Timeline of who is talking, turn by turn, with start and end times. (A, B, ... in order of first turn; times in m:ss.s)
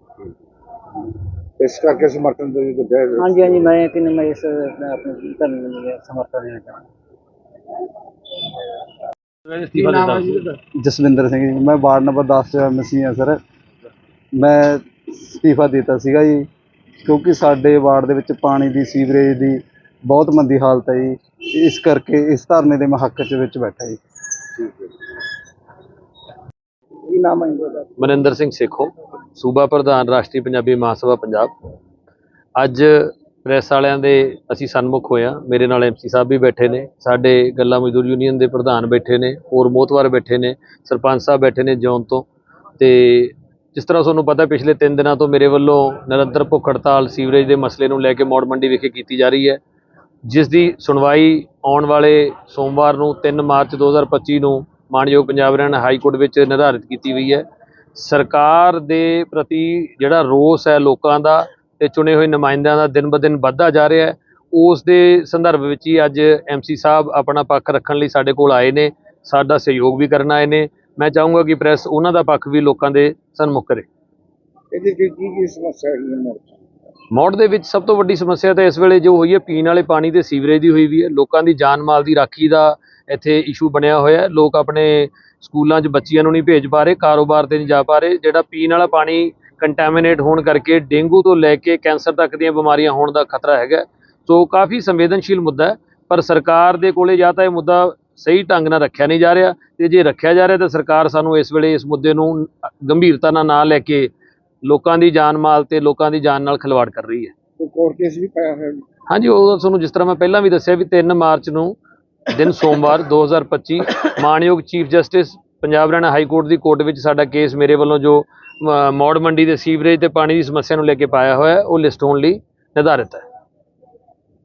0:01.6-0:03.6 A
0:03.2-0:06.8 B
0:09.4-0:10.5 C
0:10.7-0:13.4 D
0:14.3-0:16.5 D
0:17.0-0:24.0 D
0:24.6-0:24.9 A
0:27.1-0:27.9 A
0:28.0-0:31.5 C
0:32.6-0:42.2 C
0:42.8-0:49.6 C
0:50.3-0:57.4 C
0:58.0-1:13.8 C
1:14.7-1:16.7 A
1:17.1-1:44.1 C
1:44.6-1:47.3 C
1:47.6-1:48.8 A
1:49.1-1:51.8 C
1:52.3-2:03.2 C